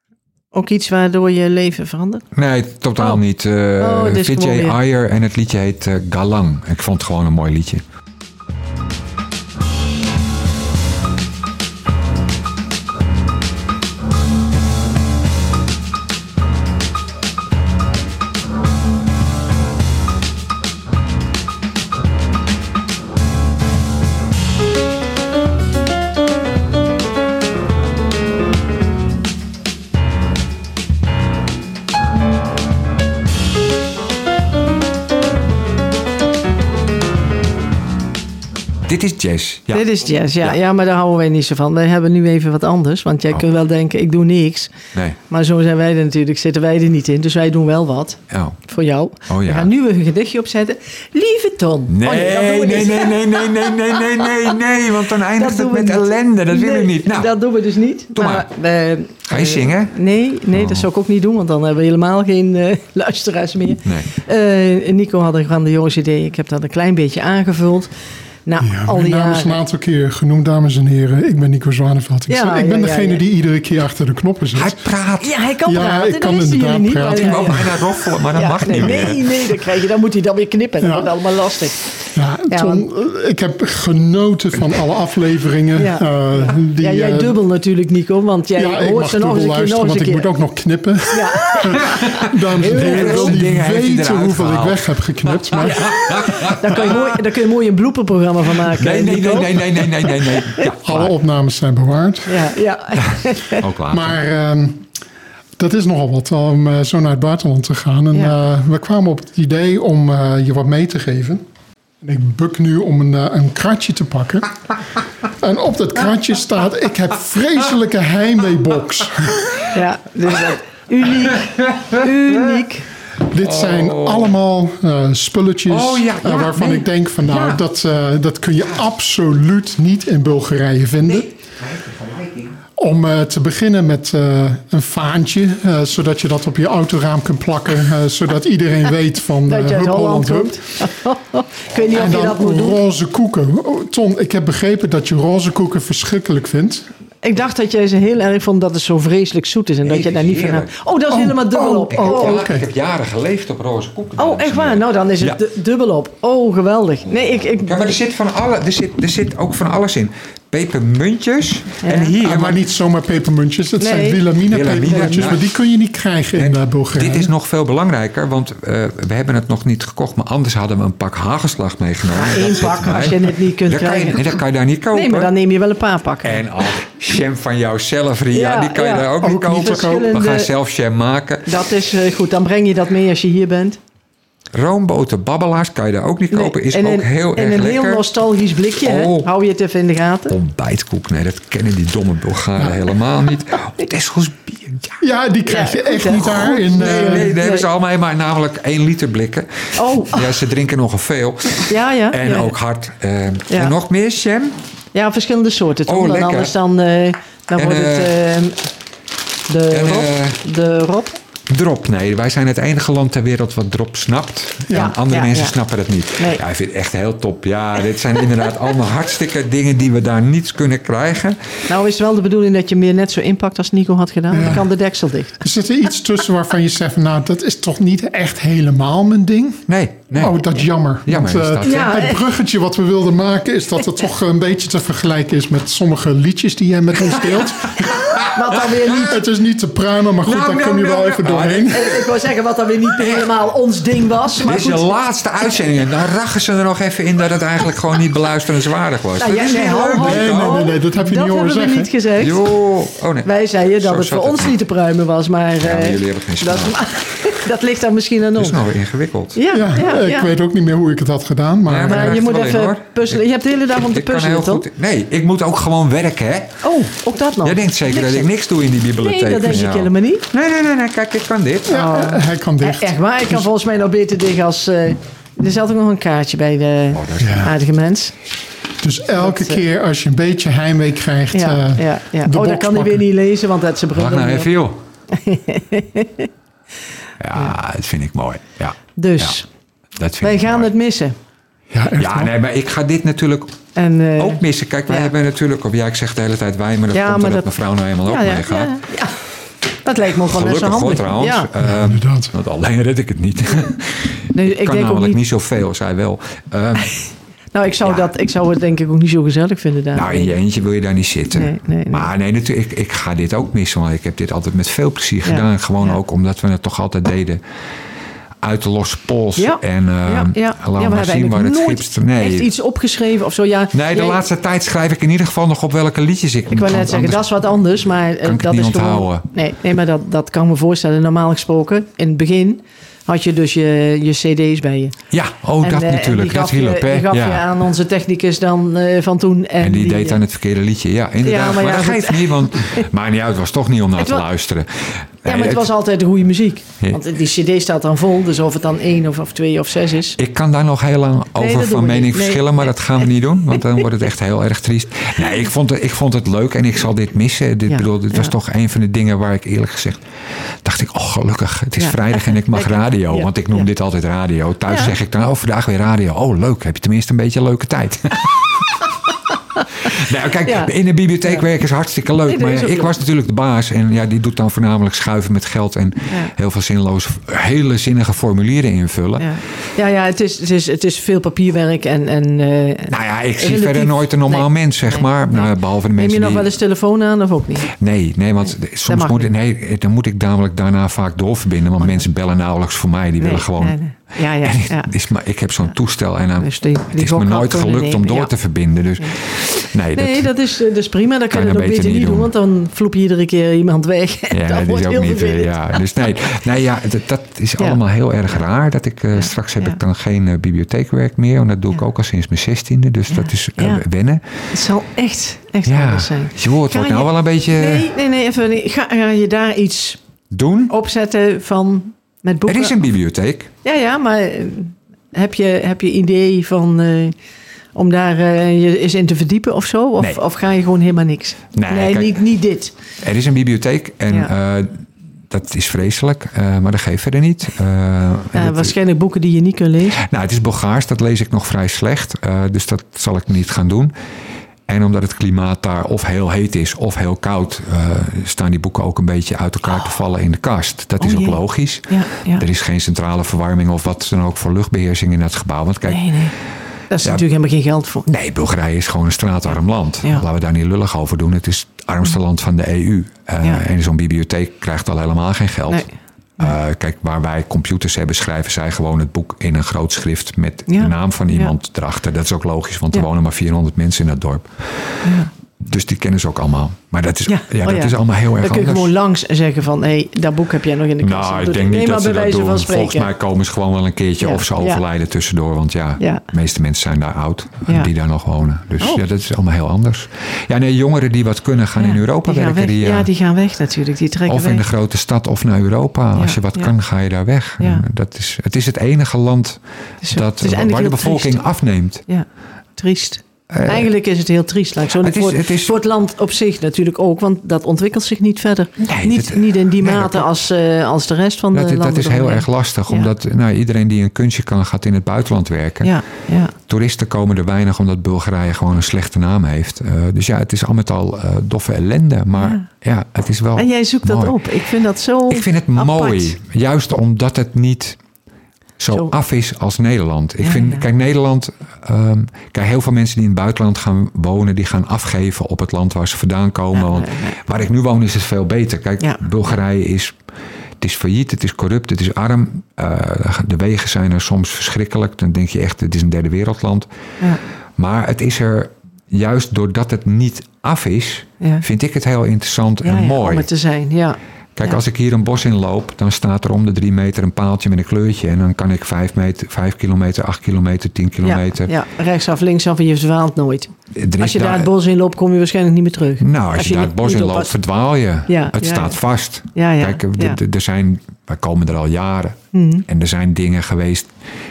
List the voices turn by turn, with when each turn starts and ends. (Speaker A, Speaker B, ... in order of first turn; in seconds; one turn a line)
Speaker A: 0.5-2.2
Speaker B: 2.3-7.8
Speaker A: 3.8-4.8
Speaker B: 38.9-39.9
Speaker A: 39.7-44.7
Speaker A: 45.3-54.0
Speaker B: 48.3-48.6
Speaker B: 49.3-49.7
Speaker B: 51.9-57.3
Speaker A: 55.3-67.9
Speaker B: 58.1-58.5
Speaker B: 59.3-59.9
Speaker B: 60.5-60.9
Speaker B: 63.8-64.1
Speaker A: 68.5-69.6
Speaker C: 68.6-74.8
Speaker A: 72.3-73.2
Speaker B: 74.5-75.3
Speaker A: 75.2-77.7
Speaker C: 75.7-77.7
Speaker B: 77.1-79.2
Speaker A: 78.3-81.8
Speaker C: 80.8-81.1
Speaker C: 82.1-87.4
Speaker A: 82.5-82.8
Speaker A: 85.7-90.3
Speaker C: 88.6-96.0
Speaker A: 91.1-93.4
Speaker B: 91.9-97.2
Speaker A: 95.6-100.7
Speaker B: 98.7-101.1
Speaker C: 100.8-102.4
Speaker A: 102.2-103.6
Speaker B: 103.6-104.2
Speaker C: 103.9-104.9
Speaker C: 105.6-111.4
Speaker C: 112.0-114.5
Speaker C: 115.4-119.6
Speaker A: 119.7-122.8
Speaker B: 121.3-122.6
Speaker C: 123.3-131.3
Speaker B: 123.4-124.3
Speaker B: 125.7-127.6
Speaker B: 131.0-132.6
Speaker C: 132.8-140.6
Speaker A: 139.5-142.8
Speaker C: 141.9-146.9
Speaker A: 147.2-152.4
Speaker B: 149.8-150.7
Speaker C: 151.1-152.6
Speaker B: 151.9-155.4
Speaker A: 154.2-157.9
Speaker B: 157.5-162.6
Speaker A: 161.8-162.2
Speaker C: 162.2-167.3
Speaker A: 163.8-164.2
Speaker B: 164.5-165.5
Speaker A: 164.8-165.3
Speaker B: 166.3-175.3
Speaker A: 172.1-174.3
Speaker A: 174.9-176.4
Speaker B: 176.2-181.5
Speaker A: 178.3-180.5
Speaker C: 179.2-180.1
Speaker A: 181.4-183.8
Speaker B: 184.5-188.0
Speaker A: 186.3-190.3
Speaker B: 188.8-189.3
Speaker B: 190.3-195.0
Speaker C: 195.0-197.3
Speaker A: 195.5-197.7
Speaker B: 196.2-204.6
Speaker A: 199.7-200.3
Speaker A: 201.6-202.5
Speaker A: 204.9-208.7
Speaker B: 205.8-206.5
Speaker B: 207.5-208.1
Speaker A: 209.5-211.2
Speaker B: 209.7-210.4
Speaker B: 211.5-221.4
Speaker A: 214.7-215.6
Speaker A: 221.7-225.4
Speaker C: 224.3-224.7
Speaker C: 225.4-238.0
Speaker B: 229.7-230.4
Speaker B: 231.0-232.0
Speaker A: 231.6-232.2
Speaker B: 238.0-239.1
Speaker A: 238.3-239.2
Speaker C: 239.0-242.0
Speaker B: 240.2-242.0
Speaker A: 241.7-244.9
Speaker B: 242.9-243.3
Speaker B: 244.3-250.7
Speaker A: 249.2-252.5
Speaker C: 249.9-251.9
Speaker B: 252.2-254.6
Speaker A: 253.2-258.6
Speaker B: 255.6-256.8
Speaker B: 258.4-259.4
Speaker A: 259.3-260.3
Speaker C: 259.5-262.2
Speaker B: 261.6-266.6
Speaker A: 261.8-264.7
Speaker A: 266.6-268.3
Speaker B: 267.4-271.8
Speaker A: 268.9-270.2
Speaker C: 271.7-273.4
Speaker A: 271.7-278.1
Speaker B: 276.9-277.5
Speaker C: 277.2-277.5
Speaker C: 278.8-283.1
Speaker A: 279.2-279.6
Speaker A: 281.3-284.5
Speaker B: 283.9-284.8
Speaker A: 285.1-286.3
Speaker B: 287.2-289.4
Speaker A: 288.9-289.5
Speaker B: 290.0-290.7
Speaker A: 290.2-291.1
Speaker C: 291.7-292.3
Speaker B: 291.9-293.6
Speaker A: 293.7-295.1
Speaker B: 294.2-298.7
Speaker A: 296.9-297.5
Speaker A: 298.1-299.1
Speaker A: 299.8-301.5
Speaker B: 300.0-306.9
Speaker C: 301.6-302.3
Speaker A: 304.3-305.2
Speaker A: 307.5-310.4
Speaker B: 307.8-308.1
Speaker B: 309.9-317.4
Speaker A: 311.3-312.1
Speaker A: 315.2-316.0
Speaker B: 318.4-322.5
Speaker A: 319.4-324.2
Speaker B: 323.7-327.4
Speaker A: 326.5-334.9
Speaker B: 328.2-329.2
Speaker B: 335.1-337.5
Speaker A: 335.6-340.2
Speaker B: 339.6-345.7
Speaker A: 341.2-342.9
Speaker A: 344.0-344.2
Speaker A: 345.2-350.2
Speaker B: 350.2-360.0
Speaker A: 351.3-352.7
Speaker A: 357.7-358.3
Speaker B: 360.6-368.7
Speaker A: 361.8-363.7
Speaker A: 364.7-364.9
Speaker A: 369.6-369.9
Speaker B: 369.8-379.3
Speaker A: 370.4-370.7
Speaker A: 372.3-372.9
Speaker A: 379.2-387.7
Speaker B: 382.9-386.4
Speaker B: 387.7-400.3
Speaker A: 388.9-389.3
Speaker A: 391.8-392.0
Speaker A: 393.2-394.9
Speaker A: 396.4-398.3
Speaker A: 399.9-405.9
Speaker B: 401.3-402.3
Speaker B: 404.3-414.2
Speaker A: 409.2-409.8
Speaker A: 413.1-413.8
Speaker A: 414.5-420.0
Speaker B: 415.6-417.9
Speaker B: 420.3-420.7
Speaker A: 420.7-422.8
Speaker B: 422.4-423.5
Speaker A: 423.6-427.1
Speaker A: 427.7-432.7
Speaker B: 431.5-432.2
Speaker B: 433.0-438.7
Speaker A: 438.3-440.0
Speaker B: 440.0-443.9
Speaker B: 444.7-456.1
Speaker A: 451.0-452.4
Speaker A: 455.8-456.3
Speaker A: 456.9-458.1
Speaker B: 458.1-465.9
Speaker A: 465.7-466.5
Speaker B: 466.4-474.6
Speaker A: 470.7-471.5
Speaker A: 475.0-475.3
Speaker B: 475.6-478.9
Speaker A: 477.3-483.1
Speaker B: 481.0-493.1
Speaker A: 484.2-484.8
Speaker A: 486.0-486.2
Speaker A: 491.8-494.6
Speaker B: 494.3-502.0
Speaker A: 496.1-496.7
Speaker A: 497.6-497.8
Speaker A: 500.0-501.4
Speaker A: 502.1-513.1
Speaker B: 503.5-503.9
Speaker B: 505.0-505.7
Speaker B: 508.8-510.3
Speaker B: 511.5-515.9
Speaker A: 515.8-516.5
Speaker B: 516.6-524.4
Speaker A: 522.4-522.7
Speaker A: 523.5-526.4
Speaker B: 525.3-528.0
Speaker B: 528.8-540.2
Speaker A: 530.4-530.8
Speaker A: 536.7-537.4
Speaker B: 540.8-546.9
Speaker B: 547.8-553.5
Speaker A: 552.8-554.8
Speaker B: 554.5-561.7
Speaker A: 561.2-567.5
Speaker B: 563.9-564.7
Speaker B: 566.2-574.1
Speaker A: 568.3-569.0
Speaker A: 569.5-570.4
Speaker A: 572.5-572.8